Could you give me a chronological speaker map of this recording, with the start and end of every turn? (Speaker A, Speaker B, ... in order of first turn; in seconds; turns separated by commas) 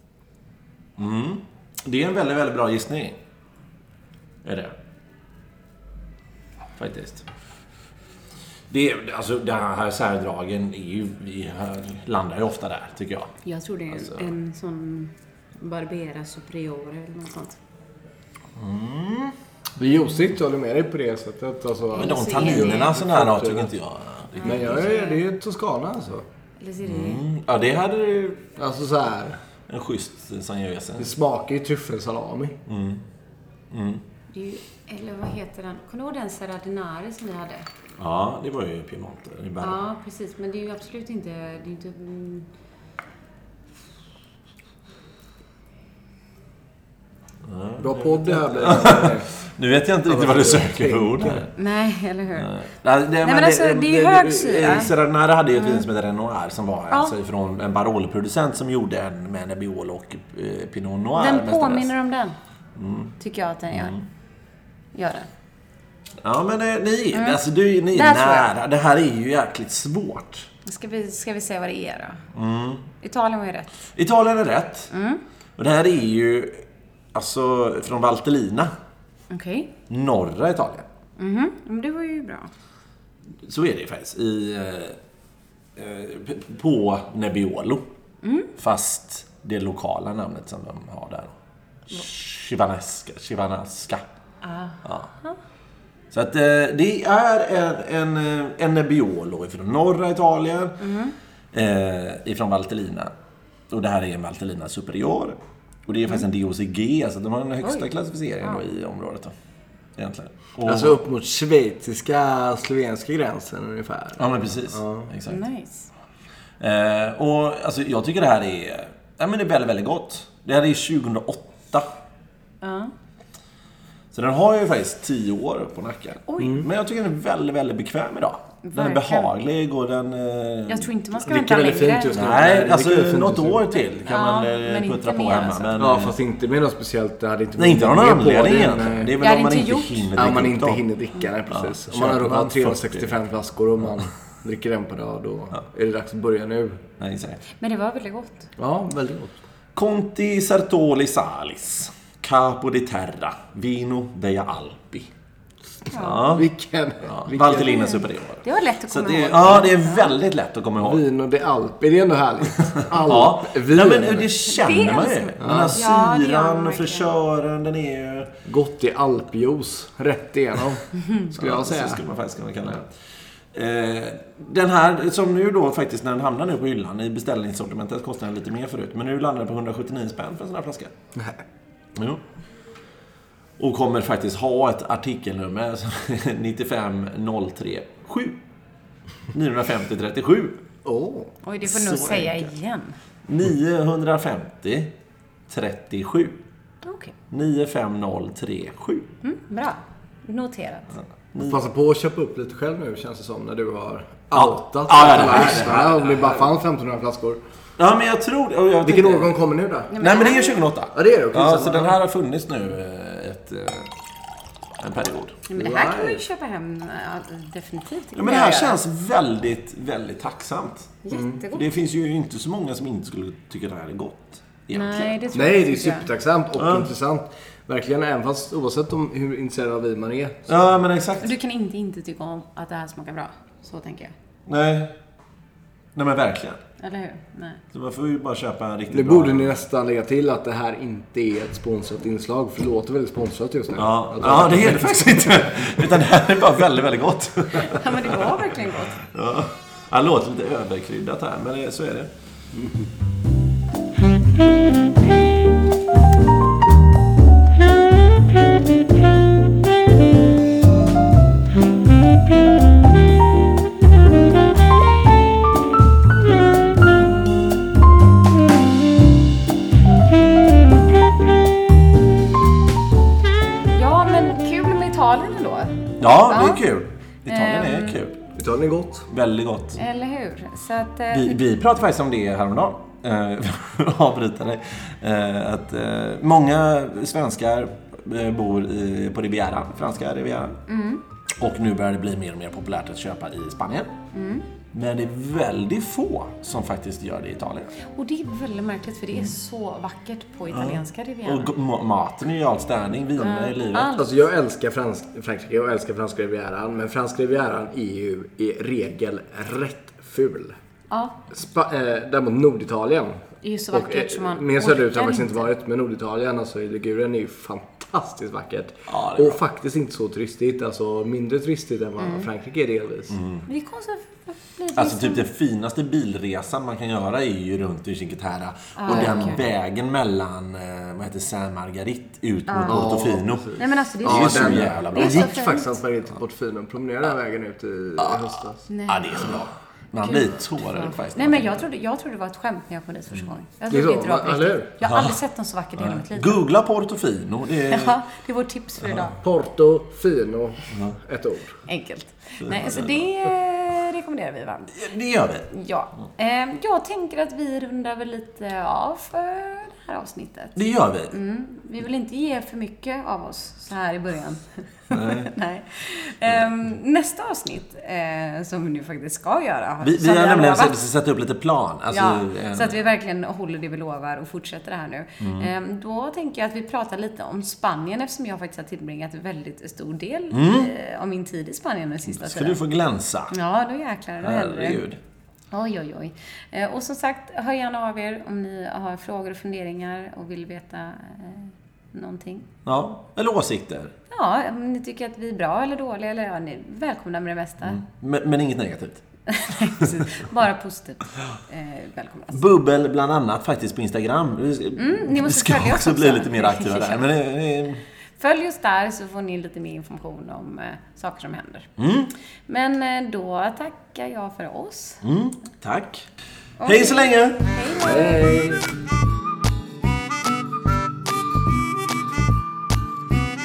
Speaker A: 1.0-3.2, Speaker A: 4.4-4.7, Speaker A: 6.8-7.2, Speaker A: 8.7-13.3, Speaker B: 13.4-17.6, Speaker A: 13.9-14.3, Speaker A: 18.6-19.3, Speaker C: 19.8-23.7, Speaker B: 21.9-22.9, Speaker A: 21.9-24.9, Speaker B: 24.4-25.2, Speaker C: 24.4-26.2, Speaker B: 26.6-27.2, Speaker A: 26.8-28.5, Speaker C: 28.6-29.4, Speaker A: 29.7-31.1, Speaker C: 31.0-32.6, Speaker A: 32.7-33.0, Speaker A: 33.7-34.0, Speaker B: 34.3-37.7, Speaker A: 38.0-39.8, Speaker B: 39.6-42.5, Speaker A: 47.5-51.5, Speaker C: 47.8-49.3, Speaker C: 50.1-51.5, Speaker B: 51.5-52.5, Speaker A: 52.4-61.9, Speaker B: 53.2-54.9, Speaker B: 55.5-55.8, Speaker B: 56.9-57.1, Speaker B: 61.1-62.3, Speaker A: 62.8-63.1, Speaker B: 63.2-64.0, Speaker A: 63.7-64.0, Speaker B: 64.9-65.3, Speaker A: 66.2-70.5, Speaker B: 67.1-67.4, Speaker B: 67.9-68.5, Speaker B: 70.6-72.2, Speaker A: 72.3-72.9, Speaker B: 73.0-73.7, Speaker A: 73.9-74.9, Speaker B: 74.9-75.2, Speaker A: 75.6-76.6, Speaker A: 77.1-78.7, Speaker B: 79.3-79.7, Speaker A: 79.9-80.8, Speaker B: 81.2-82.5, Speaker A: 83.4-85.0, Speaker A: 85.8-87.8, Speaker B: 88.2-88.5, Speaker A: 88.6-91.3, Speaker A: 91.9-94.0, Speaker B: 94.4-95.4, Speaker A: 94.8-95.1, Speaker A: 96.1-100.8, Speaker B: 100.8-101.1, Speaker A: 101.5-103.1, Speaker A: 103.7-109.3, Speaker A: 110.0-111.0, Speaker C: 110.6-115.1, Speaker A: 114.2-115.4, Speaker B: 115.3-115.9, Speaker A: 116.6-121.9, Speaker B: 122.6-122.9, Speaker A: 124.1-130.9, Speaker B: 126.3-126.6, Speaker C: 126.4-126.7, Speaker B: 128.6-129.3, Speaker B: 130.7-132.2, Speaker C: 131.2-133.7, Speaker A: 132.1-136.1, Speaker B: 134.0-135.8, Speaker C: 135.8-139.1, Speaker A: 137.6-140.8, Speaker B: 139.2-140.1, Speaker C: 140.2-146.8, Speaker A: 141.5-143.2, Speaker A: 147.0-147.4, Speaker B: 147.6-148.5, Speaker C: 148.6-149.4, Speaker A: 149.8-155.1, Speaker B: 155.9-156.4, Speaker A: 155.9-156.5, Speaker C: 156.3-157.9, Speaker A: 157.0-161.0, Speaker B: 157.8-160.1, Speaker C: 160.8-164.3, Speaker A: 162.8-168.3, Speaker B: 164.5-167.1, Speaker C: 165.4-165.8, Speaker C: 168.4-172.0, Speaker A: 171.3-172.9, Speaker A: 173.5-180.9, Speaker C: 181.1-181.4, Speaker A: 181.9-182.2, Speaker A: 183.6-188.4, Speaker A: 189.3-190.6, Speaker C: 190.8-191.3, Speaker B: 191.4-193.0, Speaker A: 191.6-192.5, Speaker A: 193.2-194.9, Speaker A: 195.5-196.4, Speaker B: 196.8-197.1, Speaker A: 197.3-199.1, Speaker B: 199.2-200.9, Speaker A: 201.3-201.6, Speaker C: 201.4-207.4, Speaker A: 204.3-206.5, Speaker A: 207.8-209.3, Speaker C: 208.8-209.9, Speaker B: 209.9-210.7, Speaker A: 209.9-213.9, Speaker C: 210.9-212.0, Speaker A: 214.8-215.4, Speaker B: 215.5-218.8, Speaker C: 215.5-216.2, Speaker A: 218.1-225.1, Speaker B: 221.0-221.7, Speaker C: 221.1-221.4, Speaker B: 224.7-226.1, Speaker C: 225.3-230.7, Speaker A: 226.6-226.9, Speaker A: 230.5-231.3, Speaker B: 231.2-234.1, Speaker A: 234.5-234.9, Speaker A: 235.9-236.6, Speaker B: 236.8-237.6, Speaker A: 237.7-239.5, Speaker C: 238.9-246.0, Speaker A: 243.8-252.1, Speaker B: 247.5-249.0, Speaker C: 252.5-252.9, Speaker B: 273.7-276.6, Speaker A: 276.0-278.2, Speaker B: 277.3-278.0, Speaker C: 278.4-279.1, Speaker A: 279.1-279.8, Speaker B: 279.8-281.4, Speaker A: 281.1-290.6, Speaker B: 290.7-291.0, Speaker A: 291.4-293.9, Speaker B: 294.1-294.4, Speaker A: 294.7-297.7, Speaker B: 297.8-301.5, Speaker A: 300.5-303.9, Speaker B: 303.2-304.2, Speaker C: 303.9-310.6, Speaker B: 310.9-311.2, Speaker C: 311.3-323.1, Speaker B: 313.4-315.5, Speaker A: 318.9-319.4, Speaker B: 322.0-322.3, Speaker A: 323.1-323.5, Speaker B: 323.5-325.2, Speaker A: 324.7-335.4, Speaker B: 328.8-329.4, Speaker B: 332.5-332.9, Speaker C: 332.6-338.6, Speaker B: 333.6-335.8, Speaker B: 338.7-339.4, Speaker A: 338.9-341.7, Speaker B: 340.0-346.5, Speaker C: 343.7-344.7, Speaker A: 344.8-345.2, Speaker A: 345.8-348.0, Speaker B: 347.7-349.2, Speaker C: 349.2-351.6, Speaker A: 350.7-350.9, Speaker B: 351.6-354.8, Speaker A: 352.4-353.1, Speaker A: 354.7-355.5, Speaker B: 355.5-360.6, Speaker A: 360.6-361.1, Speaker B: 361.1-370.8, Speaker A: 364.9-365.3, Speaker A: 369.8-372.8, Speaker B: 371.9-382.6, Speaker A: 375.2-375.5, Speaker A: 380.3-380.7, Speaker A: 382.1-383.3, Speaker B: 383.3-384.8, Speaker A: 384.2-385.0, Speaker B: 385.5-392.5, Speaker A: 392.6-393.9, Speaker B: 394.1-397.8, Speaker A: 397.6-400.2, Speaker B: 399.3-402.4, Speaker A: 402.3-407.8, Speaker B: 404.8-407.1, Speaker B: 408.2-411.7, Speaker A: 411.8-412.1, Speaker B: 412.5-415.0, Speaker A: 415.0-416.1, Speaker B: 416.6-418.3, Speaker A: 416.6-417.4, Speaker C: 417.8-418.6